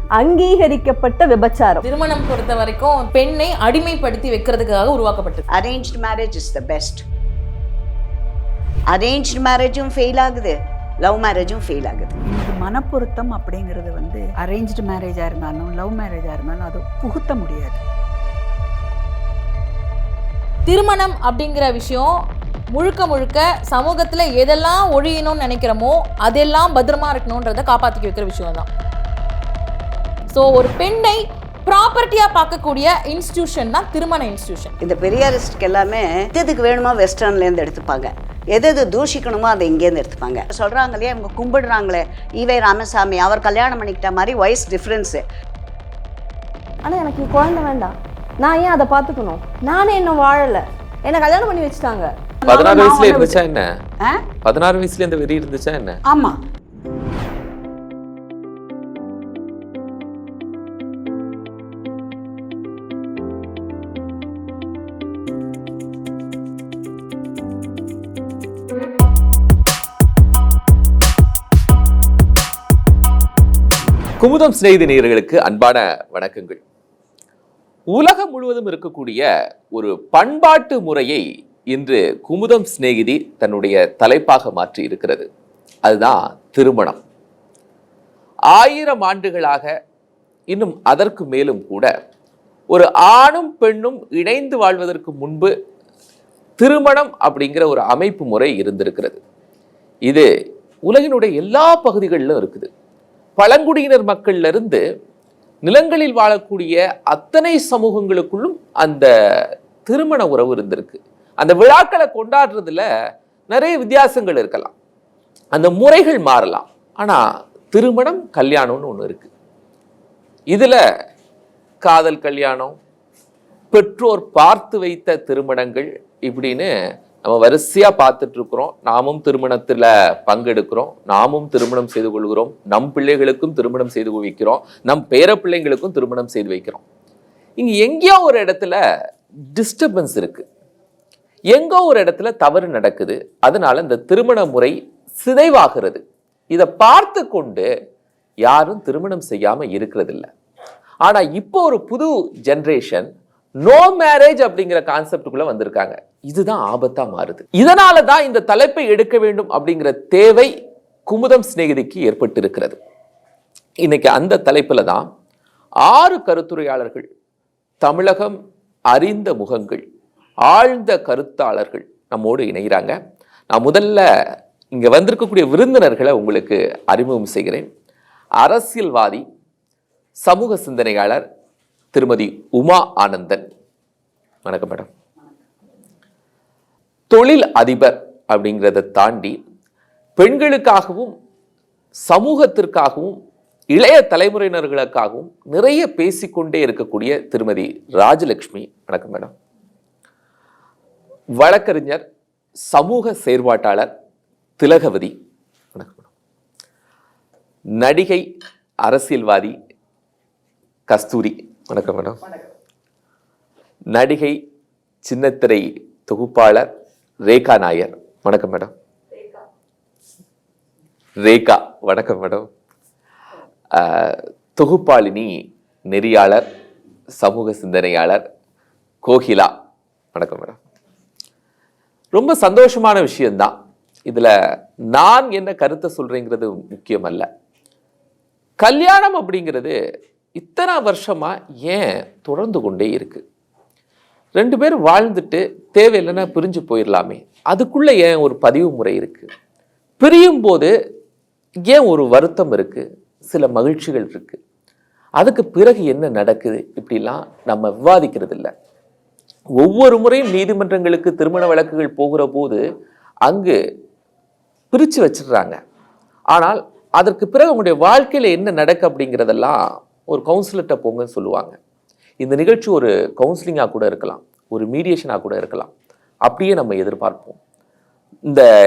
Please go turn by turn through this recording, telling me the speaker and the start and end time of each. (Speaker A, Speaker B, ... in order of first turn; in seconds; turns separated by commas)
Speaker A: 0.2-1.8, Speaker B: 1.8-5.4, Speaker C: 5.5-7.0, Speaker C: 8.9-12.2, Speaker D: 12.3-17.8, Speaker B: 20.6-22.1, Speaker B: 22.7-28.7, Speaker B: 30.3-34.8, Speaker C: 34.8-45.2, Speaker A: 46.8-52.1, Speaker D: 52.4-53.4, Speaker E: 52.5-53.6, Speaker E: 54.4-56.0, Speaker D: 56.1-56.4, Speaker E: 74.2-76.6, Speaker E: 77.9-85.3, Speaker E: 85.8-87.0, Speaker E: 88.5-89.7, Speaker E: 90.5-91.9, Speaker E: 92.7-95.5, Speaker E: 96.6-99.2, Speaker E: 100.8-102.7, Speaker E: 103.4-104.8, Speaker E: 105.6-109.1, Speaker E: 109.8-112.8, Speaker E: 113.5-114.7, Speaker E: 115.5-119.3, Speaker E: 120.5-120.8, Speaker E: 121.8-122.8, Speaker E: 123.7-126.7, Speaker E: 127.2-136.8, Speaker E: 137.6-138.8, Speaker E: 139.5-140.4, Speaker E: 141.5-147.7, Speaker E: 148.4-150.3, Speaker E: 151.0-153.1, Speaker E: 153.6-160.5, Speaker E: 161.1-162.8, Speaker E: 163.8-165.1, Speaker E: 165.8-167.1, Speaker E: 167.8-168.3, Speaker E: 168.9-169.8, Speaker E: 170.5-172.9, Speaker E: 173.5-174.0, Speaker E: 174.7-177.7, Speaker E: 178.4-179.2, Speaker E: 180.2-181.2, Speaker E: 181.9-183.4, Speaker E: 184.4-184.9, Speaker E: 187.1-189.4, Speaker E: 190.2-191.1, Speaker E: 192.1-193.1, Speaker E: 193.7-199.3, Speaker E: 201.4-202.0, Speaker E: 202.7-203.9, Speaker E: 204.6-205.1, Speaker E: 205.7-206.1, Speaker E: 207.8-208.2, Speaker E: 208.8-209.5, Speaker E: 210.9-212.2, Speaker E: 213.9-214.4, Speaker E: 215.0-216.7, Speaker E: 217.2-218.7, Speaker E: 221.2-222.5, Speaker E: 223.7-226.4, Speaker E: 227.2-228.2, Speaker E: 229.0-229.5, Speaker E: 230.1-230.6, Speaker E: 232.1-233.5, Speaker E: 234.9-237.3, Speaker E: 238.6-239.7, Speaker E: 240.3-243.2, Speaker E: 244.3-249.3, Speaker E: 250.0-250.7, Speaker E: 251.7-254.4, Speaker E: 255.2-258.5, Speaker E: 259.6-262.6, Speaker E: 263.2-263.6, Speaker E: 264.7-265.6, Speaker E: 266.3-271.6, Speaker E: 272.2-275.7, Speaker E: 276.2-277.4